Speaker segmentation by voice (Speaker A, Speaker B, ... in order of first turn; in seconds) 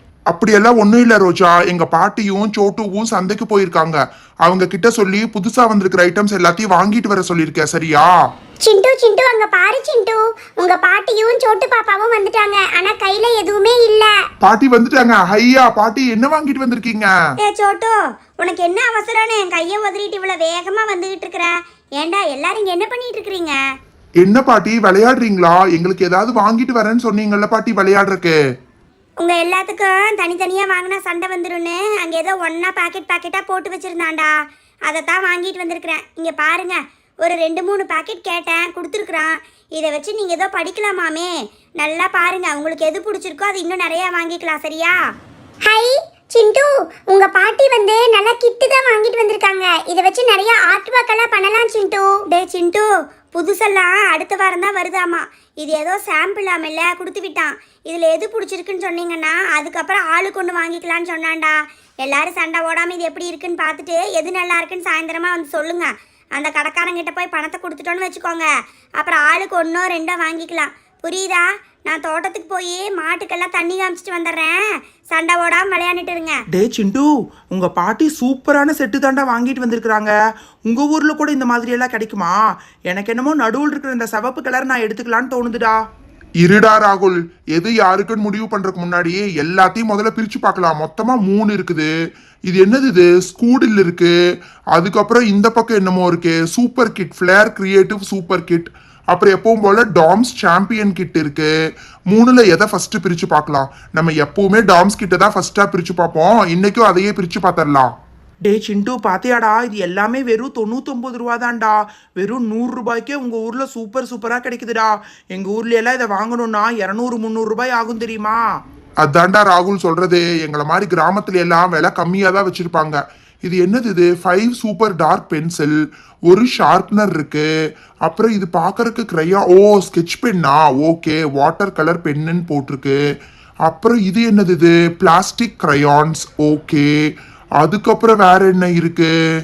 Speaker A: 0.3-8.1, 14.4-17.1, 24.2-28.4, 86.4-91.9, 92.5-94.1, 94.7-101.5, 102.1-107.9, 119.0-127.5, 128.0-133.0, 133.6-136.9, 137.6-139.1
Speaker B: 8.6-14.1, 45.7-52.2
Speaker C: 17.4-23.6, 29.2-34.3, 34.9-45.0, 52.3-76.4
Speaker D: 76.5-80.1, 80.7-82.4, 82.9-85.8, 108.5-118.4